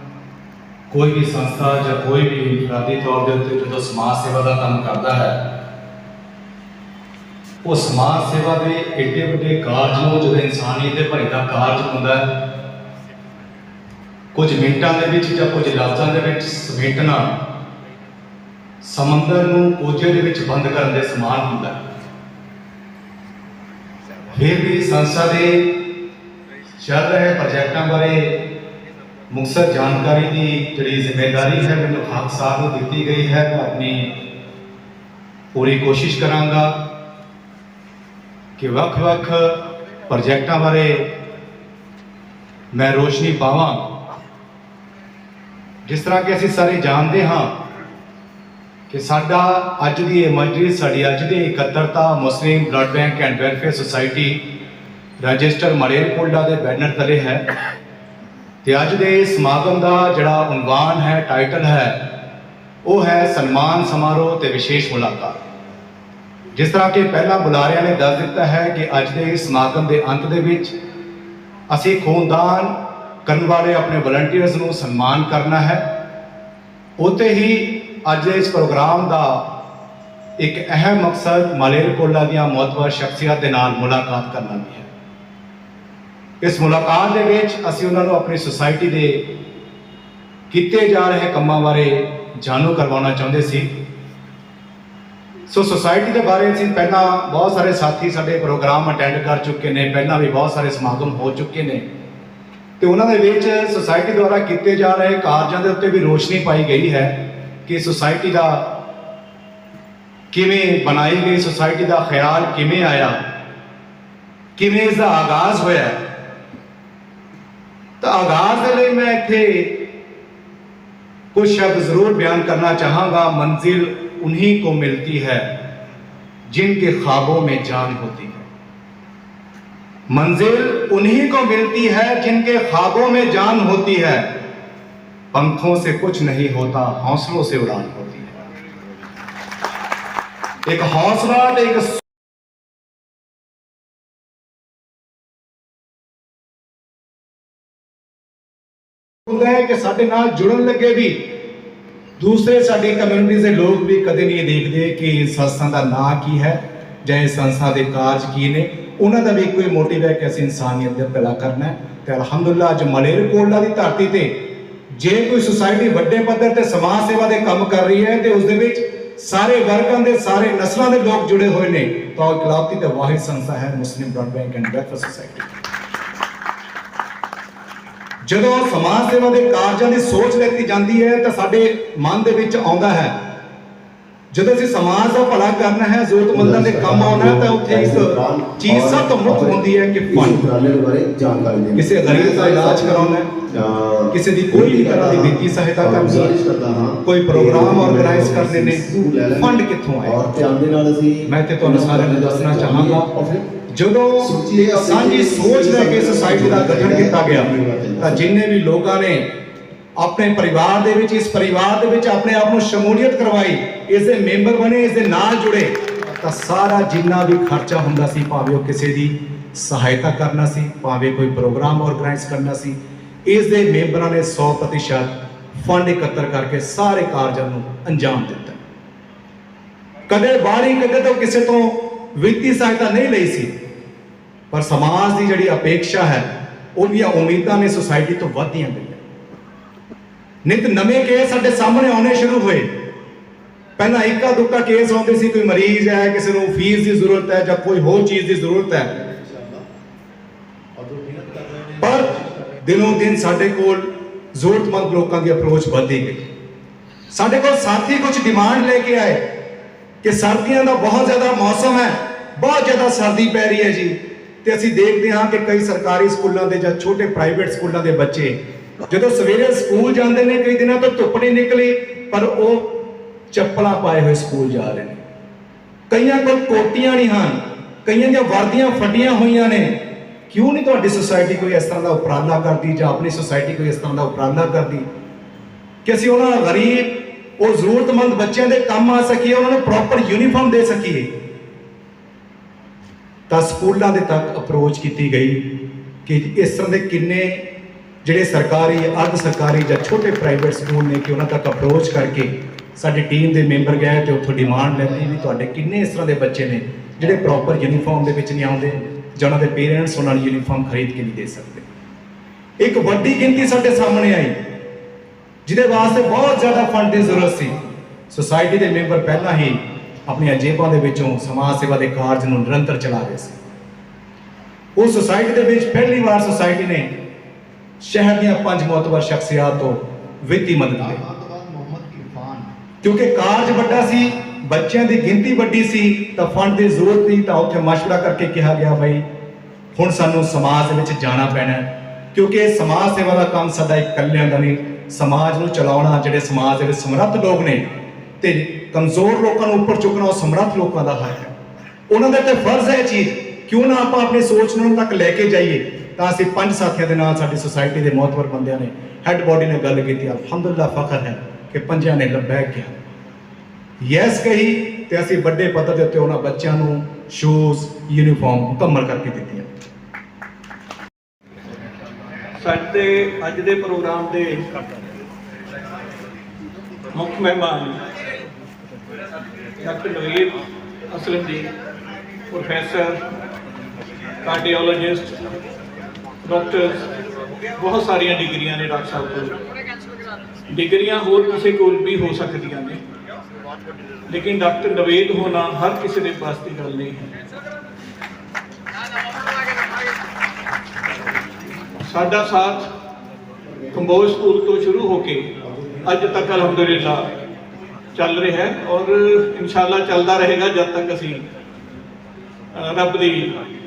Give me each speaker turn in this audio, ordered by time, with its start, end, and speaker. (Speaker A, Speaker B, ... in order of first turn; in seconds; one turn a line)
Speaker A: 0.9-5.5
Speaker A: 7.6-12.5
Speaker A: 14.3-17.4
Speaker A: 18.8-21.8
Speaker A: 24.3-25.9
Speaker A: 26.8-28.6
Speaker A: 29.3-34.2
Speaker A: 35.5-36.9
Speaker A: 38.6-41.1
Speaker A: 42.7-43.9
Speaker A: 45.9-47.6
Speaker A: 48.9-54.5
Speaker A: 55.2-57.5
Speaker A: 58.6-62.0
Speaker A: 62.8-65.4
Speaker A: 66.5-70.8
Speaker A: 71.7-75.9
Speaker A: 77.0-79.5
Speaker A: 80.4-84.9
Speaker A: 86.4-89.3
Speaker A: 90.5-93.7
Speaker A: 95.5-101.9
Speaker A: 102.8-108.8
Speaker A: 110.3-113.2
Speaker A: 114.6-116.0
Speaker A: 118.0-119.9
Speaker A: 121.3-125.5
Speaker A: 126.5-128.5
Speaker A: 130.1-134.3
Speaker A: 135.3-138.3
Speaker A: 140.7-142.0
Speaker A: 149.3-151.2
Speaker A: 152.2-164.3
Speaker A: 164.9-175.5
Speaker A: 178.2-183.2
Speaker A: 184.3-190.4
Speaker B: 186.3-203.5
Speaker A: 191.8-193.3
Speaker A: 194.1-196.3
Speaker A: 197.0-200.2
Speaker A: 201.3-203.1
Speaker A: 203.7-209.3
Speaker B: 204.2-208.3
Speaker A: 210.0-228.6
Speaker A: 230.1-233.5
Speaker A: 234.5-239.0
Speaker A: 240.4-242.7
Speaker A: 243.8-248.9
Speaker B: 248.8-249.7
Speaker B: 250.8-252.6
Speaker A: 251.8-256.3
Speaker A: 257.1-259.2
Speaker A: 260.0-268.4
Speaker A: 268.9-275.0
Speaker A: 275.9-284.9
Speaker A: 285.9-291.1
Speaker A: 293.3-295.6
Speaker A: 296.1-297.4
Speaker A: 298.0-311.6
Speaker B: 304.6-305.1
Speaker A: 312.6-314.4
Speaker A: 315.5-323.4
Speaker A: 324.8-326.9
Speaker A: 327.8-331.0
Speaker B: 330.8-332.5
Speaker A: 332.8-339.1
Speaker A: 339.8-351.3
Speaker A: 351.9-362.7
Speaker A: 363.8-369.5
Speaker C: 372.4-374.4
Speaker C: 376.9-377.8
Speaker C: 379.6-380.4
Speaker C: 380.9-381.5
Speaker C: 382.3-383.0
Speaker C: 384.2-385.2
Speaker C: 386.2-386.9
Speaker C: 387.6-389.4
Speaker C: 390.5-392.8
Speaker C: 394.1-397.1
Speaker C: 401.8-402.7
Speaker B: 403.4-404.1
Speaker C: 403.7-405.3
Speaker B: 405.4-407.1
Speaker C: 405.9-407.1
Speaker C: 407.9-411.3
Speaker C: 412.5-413.4